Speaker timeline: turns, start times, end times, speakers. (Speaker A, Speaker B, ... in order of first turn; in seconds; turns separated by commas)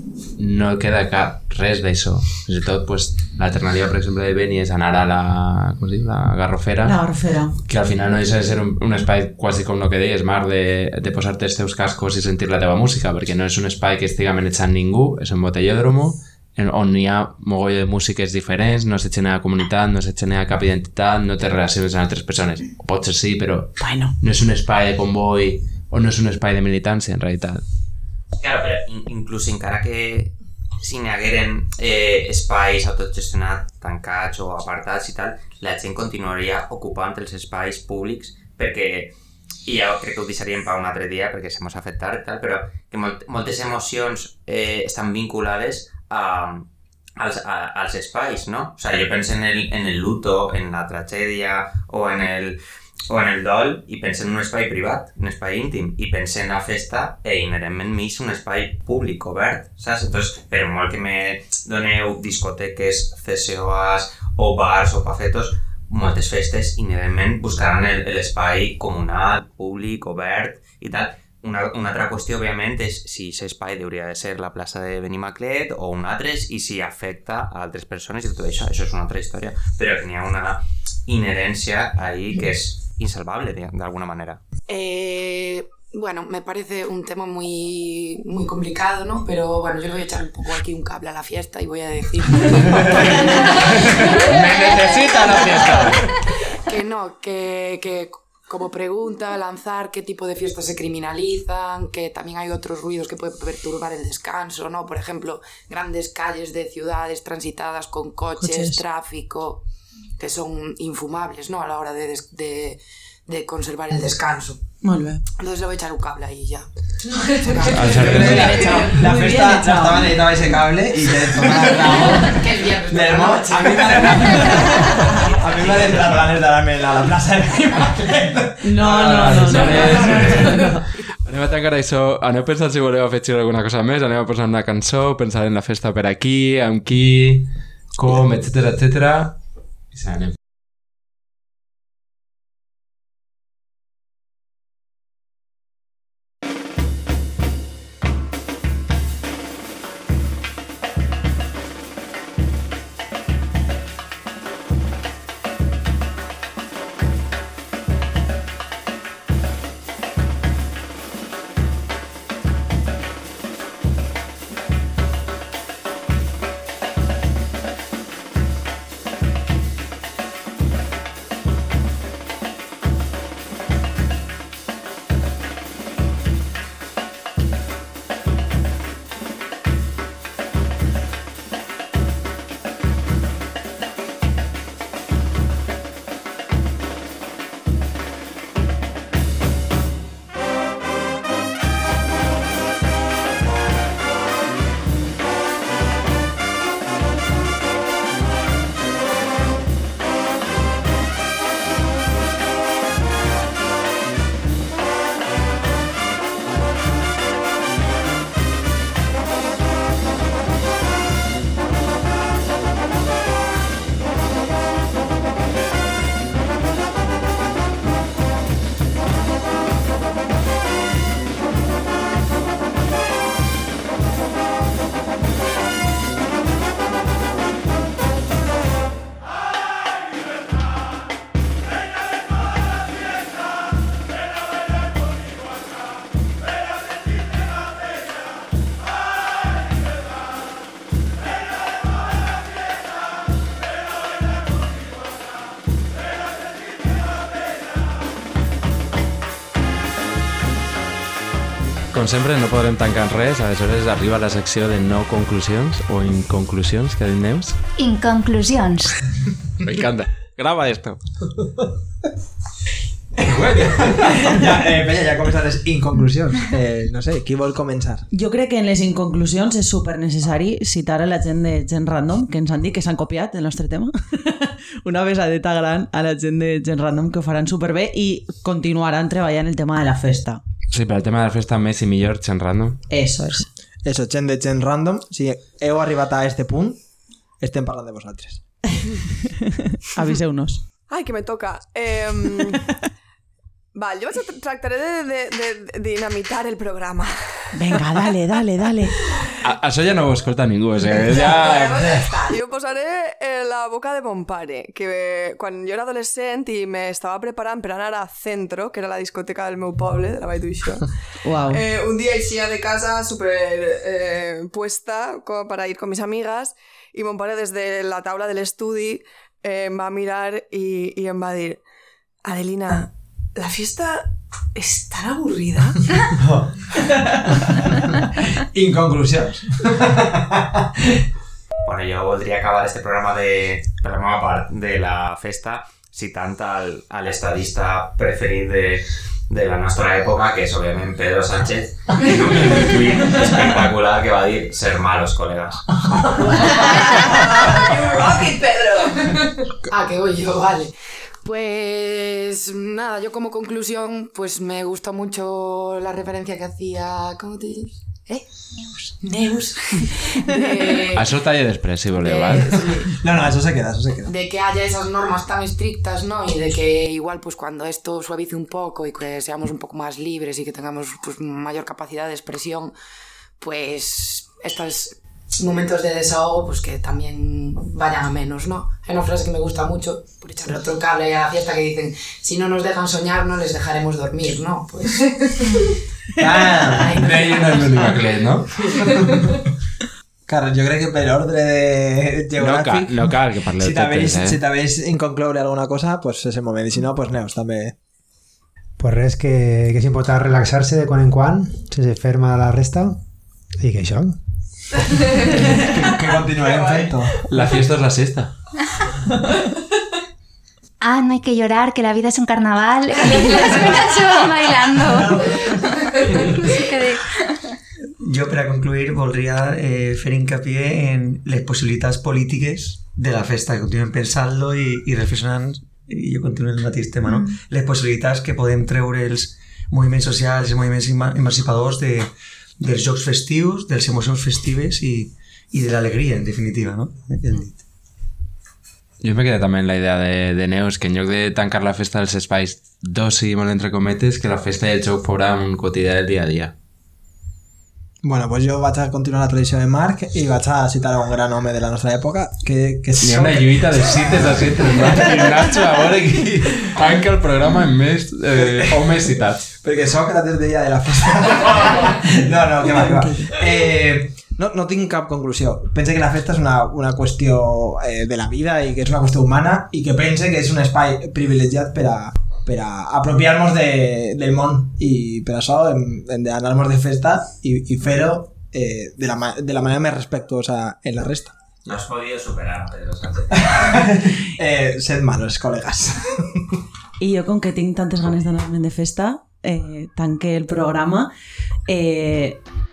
Speaker A: 0.4-7.0, Speaker B: 6.8-7.6, Speaker A: 7.6-27.6, Speaker B: 23.8-24.1, Speaker C: 28.4-39.1, Speaker C: 39.6-46.7, Speaker C: 47.2-52.6, Speaker C: 53.1-84.4, Speaker D: 84.7-96.0, Speaker A: 94.1-96.1, Speaker D: 96.7-109.6, Speaker B: 108.4-108.8, Speaker D: 110.2-114.6, Speaker B: 114.8-115.2, Speaker D: 115.4-118.8, Speaker A: 117.7-118.8, Speaker E: 117.9-130.6, Speaker B: 117.9-120.1, Speaker D: 121.8-124.4, Speaker B: 128.6-130.8, Speaker A: 128.8-130.7, Speaker A: 131.2-139.3, Speaker A: 139.9-140.4, Speaker A: 251.9-257.6, Speaker F: 257.8-258.9, Speaker A: 259.6-261.0, Speaker E: 263.2-268.1, Speaker A: 263.2-264.1, Speaker B: 268.1-280.4, Speaker A: 280.7-282.8, Speaker B: 282.9-283.5, Speaker E: 283.8-286.8, Speaker E: 287.4-288.4, Speaker B: 289.9-290.6, Speaker G: 290.9-292.6, Speaker G: 293.8-299.0, Speaker B: 297.5-298.9, Speaker A: 299.4-302.2, Speaker G: 300.8-310.9, Speaker B: 311.2-311.6, Speaker G: 311.4-321.6, Speaker G: 322.2-324.0, Speaker G: 324.6-325.7, Speaker E: 328.0-331.0, Speaker C: 331.6-345.6, Speaker D: 346.5-358.2, Speaker D: 359.0-361.1, Speaker A: 360.9-362.6, Speaker D: 362.0-362.9, Speaker E: 363.0-364.1, Speaker D: 364.1-372.7, Speaker D: 373.4-385.7, Speaker E: 386.2-387.1, Speaker D: 386.8-388.0, Speaker A: 386.9-388.5, Speaker D: 388.6-389.0, Speaker E: 390.3-397.7, Speaker A: 392.4-394.4, Speaker H: 398.8-403.0, Speaker H: 403.6-404.2, Speaker E: 405.6-407.1, Speaker A: 407.2-408.3, Speaker F: 410.8-417.2, Speaker I: 418.0-437.6, Speaker A: 439.0-446.5, Speaker E: 448.0-455.6, Speaker A: 453.0-459.5, Speaker E: 458.4-458.9, Speaker E: 459.6-481.4, Speaker B: 462.7-463.3, Speaker C: 481.6-483.7, Speaker E: 483.4-486.2, Speaker B: 487.0-491.1, Speaker B: 491.7-492.4